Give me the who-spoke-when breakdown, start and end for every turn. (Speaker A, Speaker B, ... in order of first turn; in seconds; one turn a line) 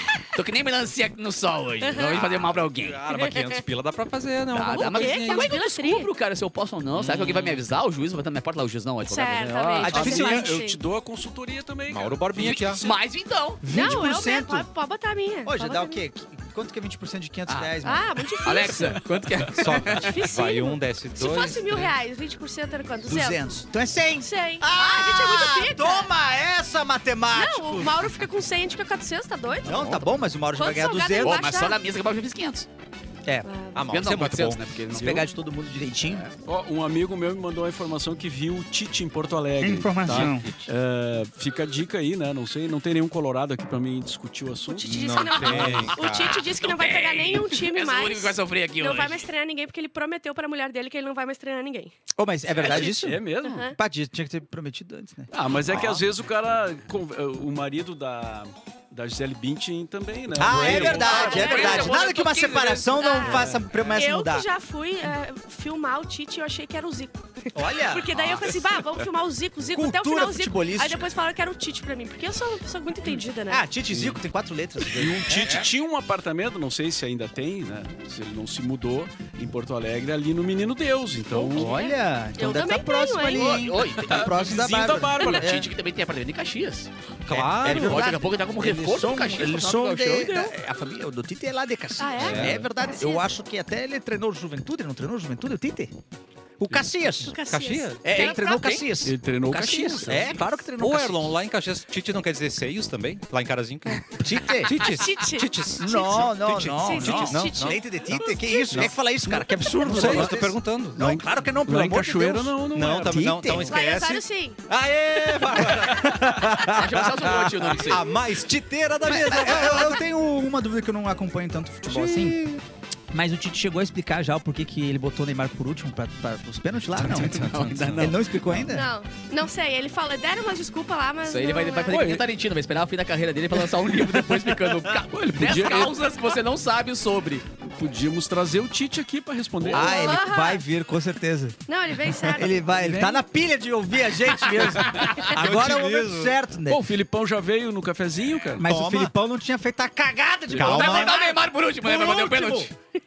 Speaker A: 0.2-3.0
Speaker B: 1.8-2.2
Speaker C: 2.1-5.5
Speaker B: 3.1-3.6
Speaker A: 4.5-10.0
Speaker B: 4.7-6.1
Speaker C: 6.9-7.7
Speaker B: 9.1-10.8
Speaker D: 9.7-12.9
Speaker E: 9.8-10.6
Speaker C: 11.9-12.8
Speaker A: 12.4-13.6
Speaker E: 13.6-14.7
Speaker B: 13.7-16.0
Speaker E: 15.4-18.2
Speaker A: 17.5-17.7
Speaker B: 17.8-19.0
Speaker A: 18.4-20.2
Speaker C: 19.5-21.9
Speaker B: 19.9-23.5
Speaker E: 23.1-28.1
Speaker B: 24.2-26.1
Speaker B: 27.3-30.0
Speaker E: 29.6-31.4
Speaker A: 29.7-30.0
Speaker B: 30.5-31.8
Speaker A: 31.2-32.7
Speaker B: 33.5-33.9
Speaker C: 33.7-34.8
Speaker A: 33.9-35.3
Speaker E: 34.9-36.3
Speaker D: 36.4-45.8
Speaker E: 39.6-40.5
Speaker C: 40.1-40.5
Speaker B: 44.6-51.9
Speaker C: 44.9-46.4
Speaker E: 45.4-46.0
Speaker A: 45.5-49.3
Speaker E: 52.2-55.9
Speaker D: 52.6-53.6
Speaker B: 53.5-53.8
Speaker D: 55.3-61.7
Speaker C: 55.7-56.0
Speaker E: 60.3-64.5
Speaker A: 60.5-63.0
Speaker B: 60.7-62.0
Speaker B: 62.9-73.7
Speaker D: 63.2-64.0
Speaker E: 67.5-68.2
Speaker C: 68.1-68.5
Speaker E: 69.7-71.0
Speaker E: 73.5-75.7
Speaker D: 73.9-74.2
Speaker D: 74.8-81.7
Speaker B: 81.3-83.6
Speaker E: 81.5-85.7
Speaker A: 83.3-90.5
Speaker D: 84.0-85.7
Speaker C: 87.3-88.1
Speaker E: 87.3-95.9
Speaker B: 92.0-93.3
Speaker C: 92.2-92.7
Speaker E: 96.6-97.4
Speaker B: 97.2-98.6
Speaker C: 97.5-98.0
Speaker E: 98.0-101.4
Speaker A: 98.1-100.2
Speaker D: 99.0-100.4
Speaker C: 100.8-107.8
Speaker E: 104.1-104.9
Speaker B: 104.7-108.9
Speaker E: 105.8-113.8
Speaker C: 108.7-111.2
Speaker D: 111.0-113.3
Speaker C: 112.7-120.0
Speaker B: 113.6-114.6
Speaker E: 115.3-117.0
Speaker A: 116.7-118.1
Speaker E: 119.0-122.5
Speaker B: 119.3-119.6
Speaker C: 121.9-122.6
Speaker E: 123.1-128.9
Speaker C: 127.0-128.7
Speaker A: 127.1-128.2
Speaker B: 128.7-132.0
Speaker A: 131.3-137.5
Speaker D: 131.9-132.2
Speaker D: 135.2-136.1
Speaker D: 137.7-140.2
Speaker E: 139.6-141.6
Speaker B: 139.8-140.6
Speaker B: 141.7-142.7
Speaker E: 142.1-146.8
Speaker D: 142.7-143.2
Speaker A: 144.5-145.3
Speaker C: 145.3-146.4
Speaker D: 146.7-148.7
Speaker E: 148.6-151.3
Speaker C: 148.6-149.1
Speaker C: 150.5-151.2
Speaker A: 150.5-152.7
Speaker E: 151.8-152.7